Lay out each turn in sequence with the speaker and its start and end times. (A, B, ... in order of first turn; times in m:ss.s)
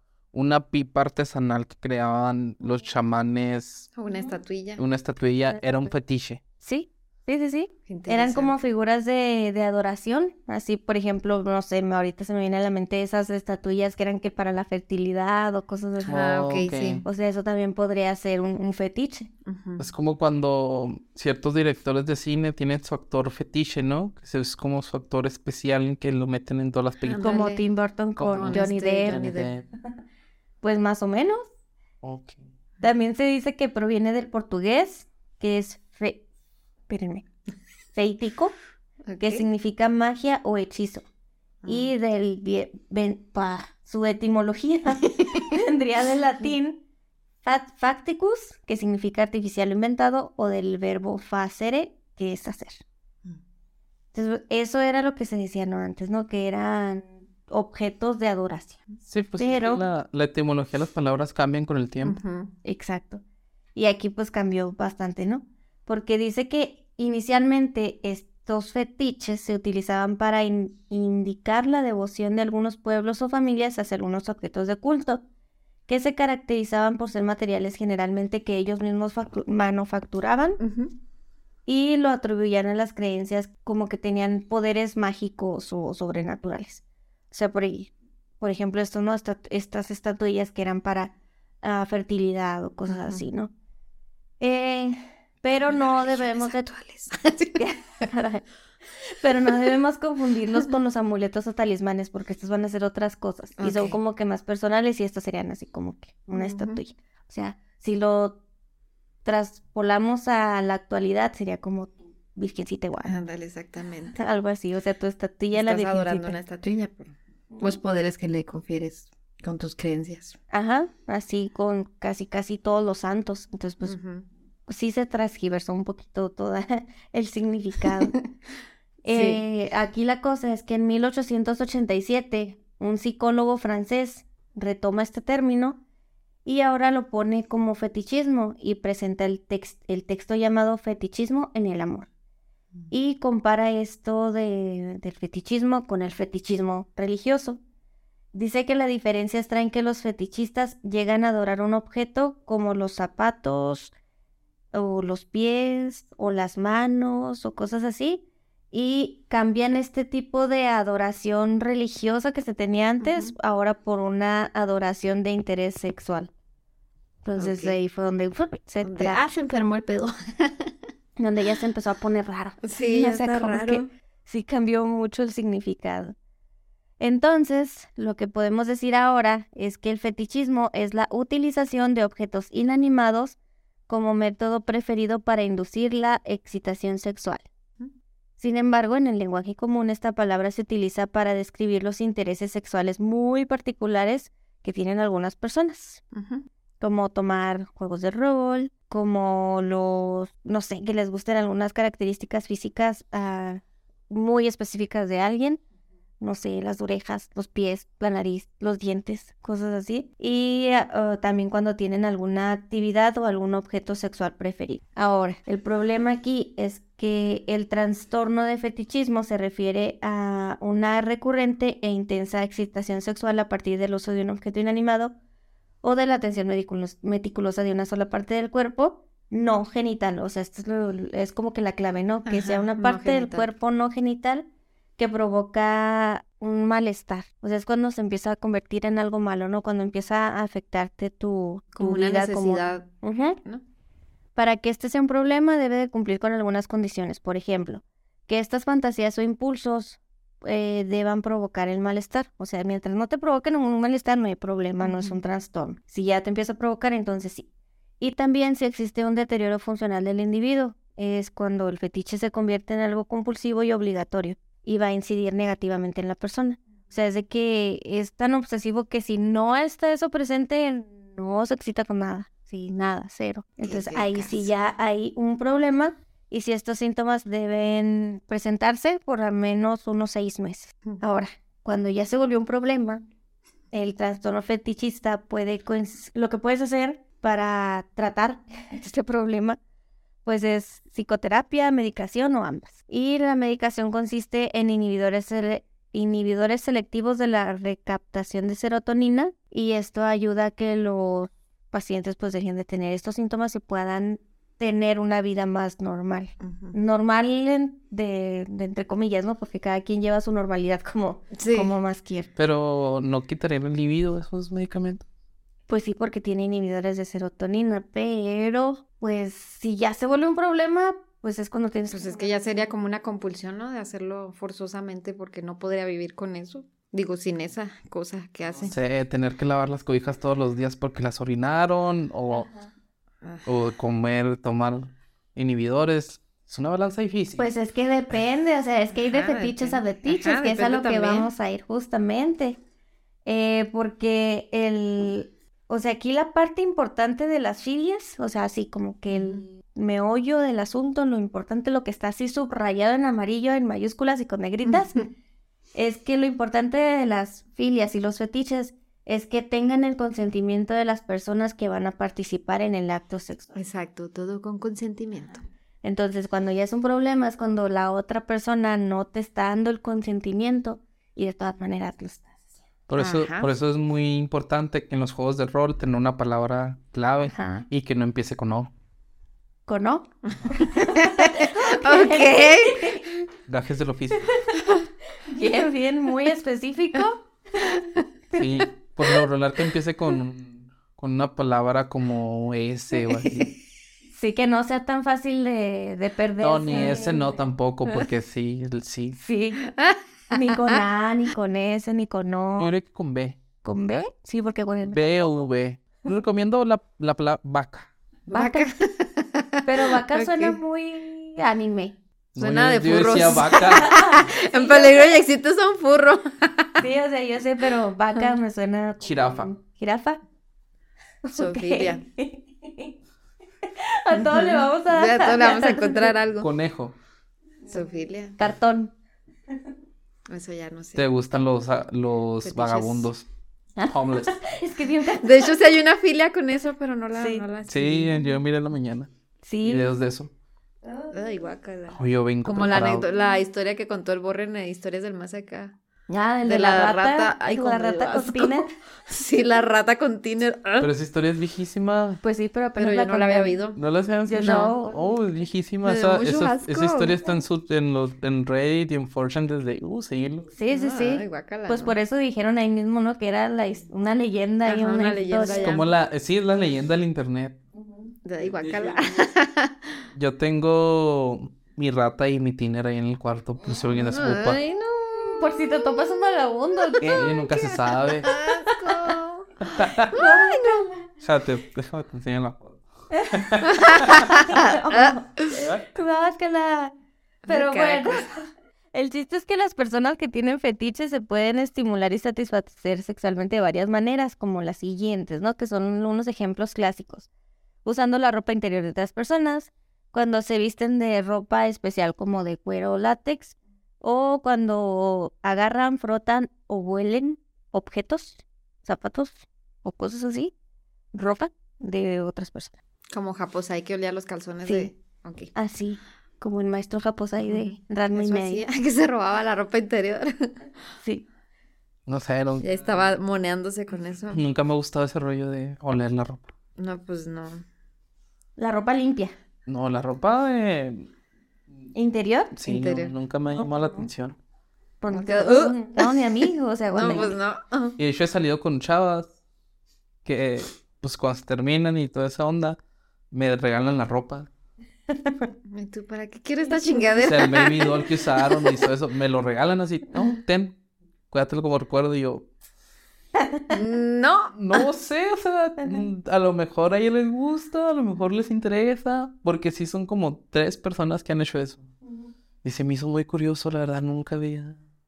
0:00.3-0:03.9 A
0:04.0-0:04.8 B
0:04.8-0:06.4 A
0:06.6-0:16.3 C
0:07.9-0:08.6 B
0:16.0-0:17.0 A
0:16.1-0:17.0 B
0:17.0-0:19.3 C
0:19.5-0:19.8 B
0:19.8-0:27.5 A
0:27.0-0:27.6 B
0:27.2-0:29.3 C
0:28.2-0:29.7 A
0:28.3-0:29.5 B
0:30.6-0:31.5 C
0:32.0-0:32.4 A
0:32.8-0:36.2 C
0:36.9-0:37.2 C
0:37.9-0:38.5 C
0:39.1-0:39.5 B
0:39.2-0:41.0 C
0:41.6-0:41.9 B
0:41.7-0:46.8 C
0:47.4-0:52.8 C
0:54.1-0:58.8 C
0:59.0-1:02.2 A
0:59.4-0:59.8 C
1:02.0-1:02.5 B
1:02.6-1:03.2 C
1:03.8-1:15.2 C
1:15.9-1:20.6 C
1:20.6-1:20.9 B
1:21.7-1:33.5 C
1:32.9-1:33.2 B
1:34.4-1:36.7 C
1:35.7-1:37.6 B
1:37.6-1:38.4 C
1:39.2-1:48.4 C
1:43.6-1:44.0 B
1:46.3-1:46.8 B
1:49.2-1:53.1 C
1:53.0-1:54.2 B
1:54.2-1:56.4 C
1:55.5-2:00.4 B
2:00.5-2:04.0 C
2:03.8-2:04.3 B
2:04.7-2:08.2 C
2:09.0-2:15.8 C
2:09.1-2:09.4 B
2:16.4-2:22.1 C
2:22.9-2:27.6 C
2:28.3-2:33.9 C
2:34.7-2:46.3 C
2:43.0-2:43.3 B
2:47.2-2:49.2 C
2:47.4-2:47.8 B
2:48.8-2:50.7 B
2:51.2-2:56.2 C
2:52.6-2:53.9 B
2:57.0-3:03.4 C
3:03.9-3:07.5 C
3:08.4-3:16.0 C
3:16.1-3:16.5 B
3:16.8-3:25.6 C
3:26.2-3:45.2 C
3:45.8-4:03.4 C
3:52.3-3:53.5 B
4:01.8-4:03.6 B
4:04.4-4:17.5 C
4:14.8-4:15.2 B
4:18.0-4:43.0 C
4:33.6-4:34.5 B
4:43.7-4:49.6 C
4:50.2-5:12.3 C
5:06.4-5:06.7 B
5:11.3-5:11.7 B
5:12.4-5:15.0 A
5:15.7-5:22.3 C
5:21.9-5:28.8 B
5:28.6-5:32.5 A
5:33.2-5:33.5 B
5:33.5-5:37.5 A
5:37.4-5:42.6 C
5:39.0-5:41.3 B
5:43.2-5:55.0 C
5:49.1-5:49.4 B
5:54.7-5:55.1 B
5:55.8-6:03.5 C
6:03.5-6:05.4 B
6:05.8-6:12.3 C
6:12.9-6:18.7 A
6:13.0-6:13.5 B
6:17.3-6:17.6 C
6:19.7-6:23.1 C
6:20.3-6:23.0 B
6:23.5-6:24.3 A
6:25.3-6:27.8 C
6:27.7-6:28.0 B
6:28.3-6:33.5 A
6:34.1-6:37.4 C
6:36.4-6:39.2 A
6:36.7-6:37.2 B
6:39.2-6:39.7 C
6:39.6-6:40.8 B
6:40.3-6:42.7 C
6:42.6-6:43.4 A
6:43.6-6:45.0 C
6:44.9-6:47.9 A
6:48.3-6:50.6 B
6:48.3-6:48.7 C
6:49.6-6:52.0 C
6:52.4-6:54.2 A
6:52.4-6:56.9 B
6:53.5-6:55.2 C
6:56.8-7:00.2 C
6:59.0-6:59.5 A
7:01.2-7:02.9 C
7:01.4-7:02.0 B
7:03.8-7:06.1 C
7:04.1-7:06.5 B
7:06.4-7:07.0 A
7:07.7-7:08.4 B
7:08.4-7:08.9 C
7:10.3-7:11.1 B
7:11.0-7:13.3 A
7:12.4-7:13.1 B
7:13.8-7:15.5 C
7:13.9-7:14.4 A
7:15.2-7:18.2 B
7:17.1-7:17.4 C
7:17.7-7:19.1 A
7:19.4-7:19.9 C
7:19.6-7:20.3 A
7:20.9-7:21.1 C
7:21.1-7:25.8 B
7:21.9-7:23.1 A
7:26.1-7:28.7 C
7:26.5-7:30.9 B
7:30.8-7:32.2 A
7:32.2-7:33.6 C
7:32.8-7:33.8 B
7:33.8-7:40.5 A
7:34.3-7:35.0 C
7:34.4-7:34.7 B
7:35.8-7:37.2 B
7:40.6-7:45.8 C
7:40.7-7:42.0 B
7:44.6-7:45.9 B
7:45.6-7:47.6 A
7:48.2-7:49.8 B
7:48.6-7:49.1 A
7:50.2-7:54.6 A
7:53.9-7:55.8 B
7:55.4-7:57.3 C
7:57.0-7:58.3 A
7:57.1-8:00.8 B
7:58.5-7:59.1 C
7:59.7-8:00.2 A
8:00.1-8:01.1 C
8:01.2-8:04.5 A
8:03.1-8:06.9 C
8:03.6-8:05.6 B
8:05.5-8:05.9 A
8:07.4-8:08.4 B
8:07.5-8:17.3 C
8:17.8-8:30.5 C
8:31.1-8:32.8 C
8:33.1-8:35.5 B
8:34.6-8:34.9 C
8:35.6-8:38.6 C
8:37.4-8:40.5 B
8:42.1-8:43.0 A
8:42.6-8:44.4 B
8:44.3-8:46.5 A
8:46.8-8:47.6 B
8:48.6-8:49.3 C
8:49.7-8:51.1 A
8:51.9-8:52.6 C
8:52.6-8:54.4 A
8:52.6-8:53.2 B
8:53.6-8:54.1 C
8:55.0-8:57.4 C
8:55.1-8:56.2 B
8:57.0-8:58.0 B
8:58.0-8:59.3 A
9:00.2-9:02.8 A
9:03.3-9:04.5 A
9:05.1-9:05.5 C
9:05.7-9:08.8 B
9:06.9-9:07.2 C
9:07.2-9:10.8 A
9:11.3-9:12.5 A
9:13.4-9:13.6 C
9:13.7-9:14.9 B
9:14.5-9:21.9 A
9:22.6-9:24.8 A